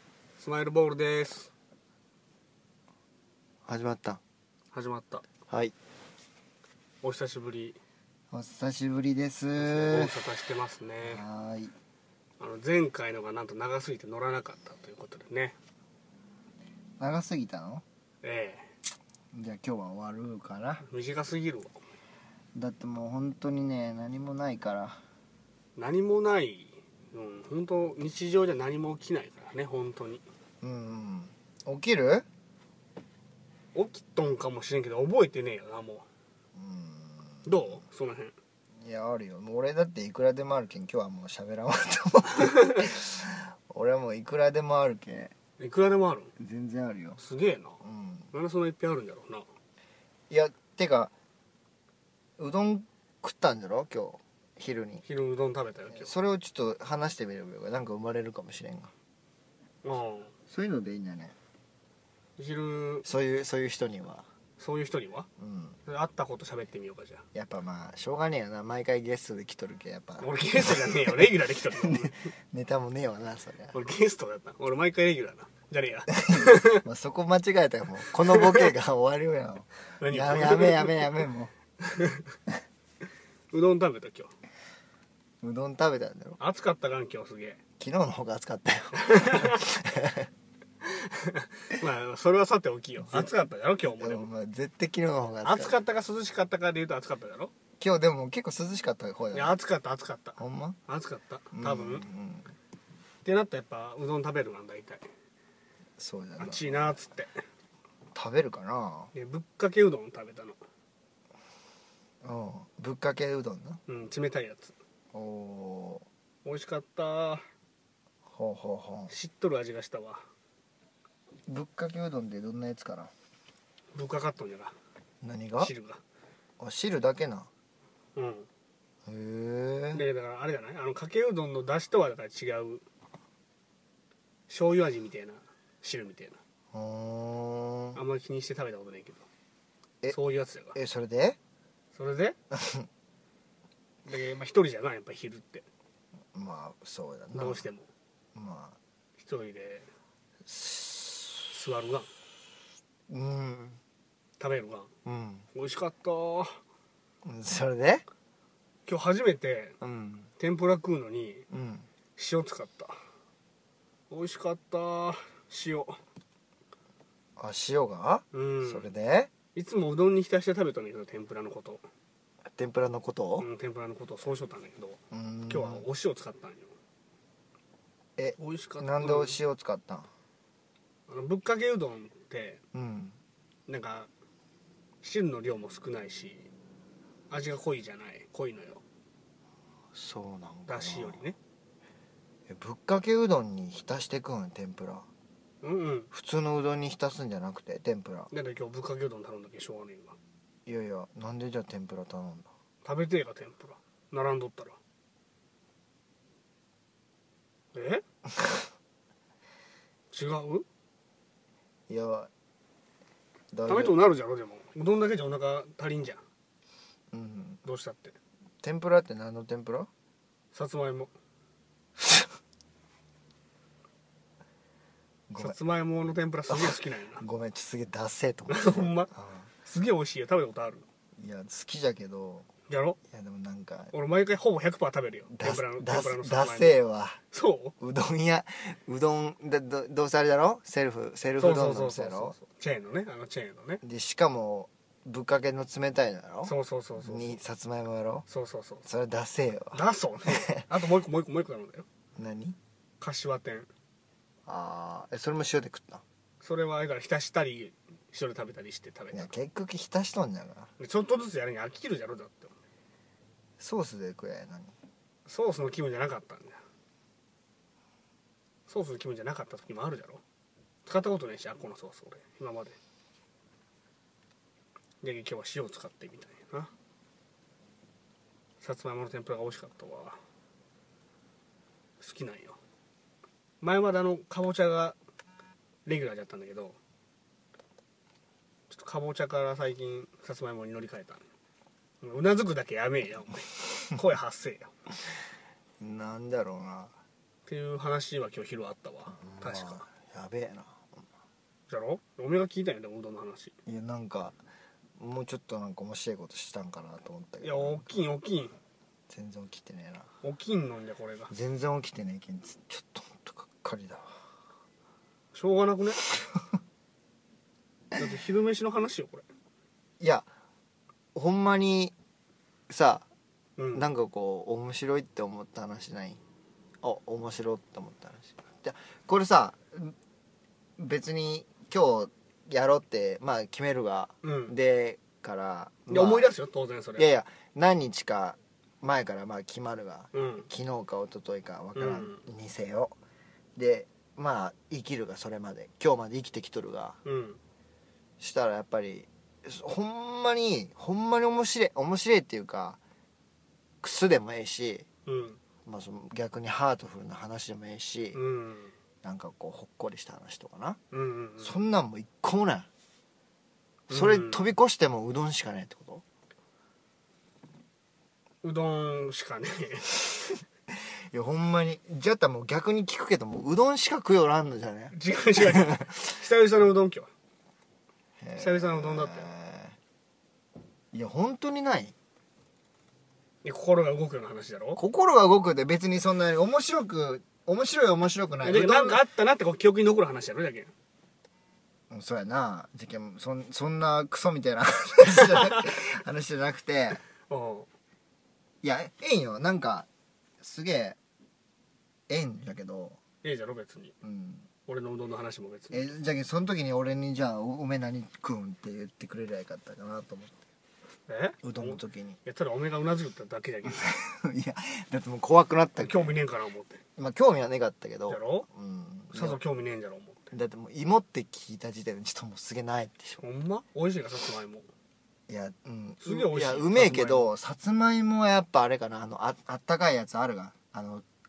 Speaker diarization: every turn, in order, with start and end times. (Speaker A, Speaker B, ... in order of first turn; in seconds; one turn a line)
Speaker A: 0.4-1.5
Speaker B: 3.7-4.2
Speaker A: 4.7-5.2
Speaker B: 5.5-5.7
Speaker A: 7.0-7.8
Speaker B: 8.3-10.2
Speaker A: 9.6-11.2
Speaker B: 11.0-11.7
Speaker A: 12.4-15.6
Speaker B: 17.0-17.8
Speaker A: 18.2-18.7
Speaker B: 19.3-20.8
Speaker A: 20.8-21.8
Speaker B: 22.6-25.0
Speaker A: 25.8-30.2
Speaker B: 30.6-32.2
Speaker A: 33.8-36.0
Speaker B: 36.6-37.6
Speaker A: 37.5-38.3
Speaker B: 38.8-45.3
Speaker A: 45.6-46.3
Speaker B: 46.4-47.2
Speaker A: 47.2-47.8
Speaker B: 47.8-48.3
Speaker A: 48.3-49.5
Speaker B: 50.3-51.1
Speaker B: 52.4-55.0
Speaker A: 55.0-56.1
Speaker B: 55.9-58.9
Speaker A: 59.8-60.3
Speaker B: 60.5-61.4
Speaker A: 62.4-63.1
Speaker B: 63.0-64.2
Speaker A: 64.6-65.3
Speaker B: 65.4-65.8
Speaker A: 65.9-67.2
Speaker B: 67.3-73.8
Speaker A: 70.2-72.2
Speaker A: 73.7-76.8
Speaker B: 76.1-81.5
Speaker A: 78.3-78.7
Speaker A: 80.0-81.2
Speaker A: 81.8-82.2
Speaker A: 83.5-84.3
Speaker B: 85.4-86.4
Speaker A: 86.4-87.6
Speaker B: 87.8-90.3
Speaker A: 89.0-89.6
Speaker A: 90.8-94.3
Speaker B: 93.0-93.3
Speaker B: 94.0-95.8
Speaker A: 95.5-97.5
Speaker B: 97.8-99.6
Speaker A: 99.3-102.0
Speaker B: 100.4-100.8
Speaker B: 101.5-102.5
Speaker A: 103.2-105.0
Speaker B: 106.0-107.0
Speaker A: 106.4-107.3
Speaker B: 108.2-109.1
Speaker A: 109.1-110.6
Speaker B: 112.2-113.8
Speaker A: 113.9-114.7
Speaker B: 115.1-116.1
Speaker A: 116.5-117.4
Speaker B: 118.3-119.1
Speaker A: 119.1-120.2
Speaker B: 121.5-123.1
Speaker A: 123.9-124.7
Speaker B: 125.2-125.7
Speaker A: 125.6-126.0
Speaker B: 126.6-127.5
Speaker A: 128.2-128.5
Speaker B: 129.1-130.0
Speaker A: 129.9-132.8
Speaker A: 134.5-136.4
Speaker B: 136.7-138.0
Speaker A: 137.9-139.2
Speaker A: 140.1-140.8
Speaker B: 140.8-141.4
Speaker A: 141.9-142.4
Speaker B: 142.5-142.9
Speaker A: 144.1-145.7
Speaker B: 146.3-147.7
Speaker A: 147.3-147.9
Speaker B: 148.3-148.8
Speaker A: 149.2-149.9
Speaker B: 150.5-151.5
Speaker A: 151.5-152.1
Speaker B: 153.1-153.8
Speaker A: 154.4-154.9
Speaker B: 155.1-155.4
Speaker A: 155.6-156.6
Speaker B: 157.2-158.1
Speaker A: 158.9-159.8
Speaker B: 159.8-160.3
Speaker A: 160.4-161.4
Speaker B: 161.5-161.8
Speaker A: 162.2-162.9
Speaker A: 164.1-166.0
Speaker B: 167.4-169.3
Speaker A: 168.3-168.9
Speaker A: 169.6-171.8
Speaker B: 172.6-173.5
Speaker A: 173.4-175.0
Speaker B: 175.1-175.9
Speaker A: 175.5-176.7
Speaker B: 178.2-180.1
Speaker A: 178.4-179.4
Speaker A: 181.1-182.6
Speaker B: 182.7-183.2
Speaker A: 183.7-184.1
Speaker A: 185.0-186.5
Speaker A: 187.3-188.8
Speaker B: 189.9-191.2
Speaker A: 190.7-191.4
Speaker B: 192.5-195.1
Speaker A: 195.6-196.1
Speaker B: 196.1-198.3
Speaker A: 198.3-200.2
Speaker B: 200.7-202.5
Speaker A: 202.8-204.8
Speaker A: 207.7-208.0
Speaker B: 208.3-208.6
Speaker A: 210.1-210.7
Speaker B: 211.9-212.3
Speaker B: 213.5-214.0
Speaker A: 213.7-216.2
Speaker B: 217.1-217.6
Speaker A: 217.6-218.2
Speaker B: 218.6-219.9
Speaker A: 220.5-221.1
Speaker B: 225.3-225.6
Speaker A: 225.4-227.2
Speaker B: 226.5-229.4
Speaker A: 228.5-229.1
Speaker A: 229.6-230.8
Speaker B: 231.2-232.5
Speaker A: 232.7-233.0
Speaker B: 233.1-233.9
Speaker A: 233.9-236.8
Speaker B: 235.3-237.2
Speaker A: 237.3-237.7
Speaker B: 237.8-242.4
Speaker A: 241.4-243.8
Speaker B: 243.8-248.3
Speaker A: 246.4-247.4
Speaker A: 248.3-248.8
Speaker B: 248.8-250.7
Speaker A: 249.7-251.9
Speaker B: 252.2-252.6
Speaker A: 253.0-253.7
Speaker B: 254.5-256.0
Speaker A: 256.4-259.3
Speaker B: 259.1-260.7
Speaker A: 260.8-262.6
Speaker B: 263.6-264.7
Speaker A: 265.3-266.6
Speaker A: 268.7-270.2
Speaker A: 270.9-272.8
Speaker A: 275.0-276.7
Speaker A: 278.6-280.2
Speaker A: 282.0-282.6
Speaker A: 283.6-285.0
Speaker A: 285.9-286.8
Speaker A: 288.7-291.2
Speaker A: 292.0-294.7
Speaker B: 295.8-296.9
Speaker A: 297.5-299.8
Speaker B: 299.1-300.9
Speaker A: 301.7-303.5
Speaker B: 303.7-304.4
Speaker B: 305.0-308.0
Speaker A: 307.4-308.5
Speaker B: 309.1-310.1
Speaker A: 310.2-311.3
Speaker B: 311.3-314.1
Speaker A: 315.3-316.0
Speaker B: 316.1-316.4
Speaker A: 317.9-319.2
Speaker B: 320.0-320.3
Speaker B: 321.1-321.9
Speaker B: 322.7-323.1
Speaker A: 323.6-323.9
Speaker B: 323.7-326.2
Speaker B: 326.8-329.9
Speaker B: 330.8-336.3
Speaker A: 334.2-334.6
Speaker A: 335.9-337.1
Speaker B: 337.0-342.9
Speaker A: 340.1-340.5
Speaker A: 341.8-342.2
Speaker B: 343.6-347.0
Speaker A: 347.1-347.4
Speaker B: 348.2-352.8
Speaker B: 353.8-354.9
Speaker A: 355.1-355.4
Speaker B: 355.7-358.2
Speaker A: 358.1-358.7
Speaker B: 359.0-360.8
Speaker A: 360.9-361.6
Speaker B: 361.4-362.7
Speaker A: 363.9-364.5
Speaker B: 363.9-366.0
Speaker A: 368.4-370.1
Speaker B: 371.1-376.0
Speaker A: 374.9-377.1
Speaker B: 378.2-379.8
Speaker A: 378.4-379.3
Speaker B: 380.9-381.9
Speaker A: 383.4-384.8
Speaker B: 384.8-389.0
Speaker A: 388.4-390.7
Speaker B: 391.9-397.0
Speaker A: 395.2-395.6
Speaker A: 397.3-397.7
Speaker B: 398.6-399.9
Speaker B: 400.4-401.0
Speaker B: 402.1-403.0
Speaker A: 403.2-403.9
Speaker B: 404.0-404.4
Speaker A: 404.7-405.9
Speaker B: 405.7-410.4
Speaker A: 411.1-413.9
Speaker B: 411.4-412.2
Speaker B: 413.7-416.1
Speaker A: 415.8-416.8
Speaker B: 417.0-419.4
Speaker A: 418.1-418.5
Speaker A: 419.1-420.2
Speaker B: 420.3-423.2
Speaker A: 423.2-424.6
Speaker B: 425.3-431.0
Speaker A: 426.0-427.3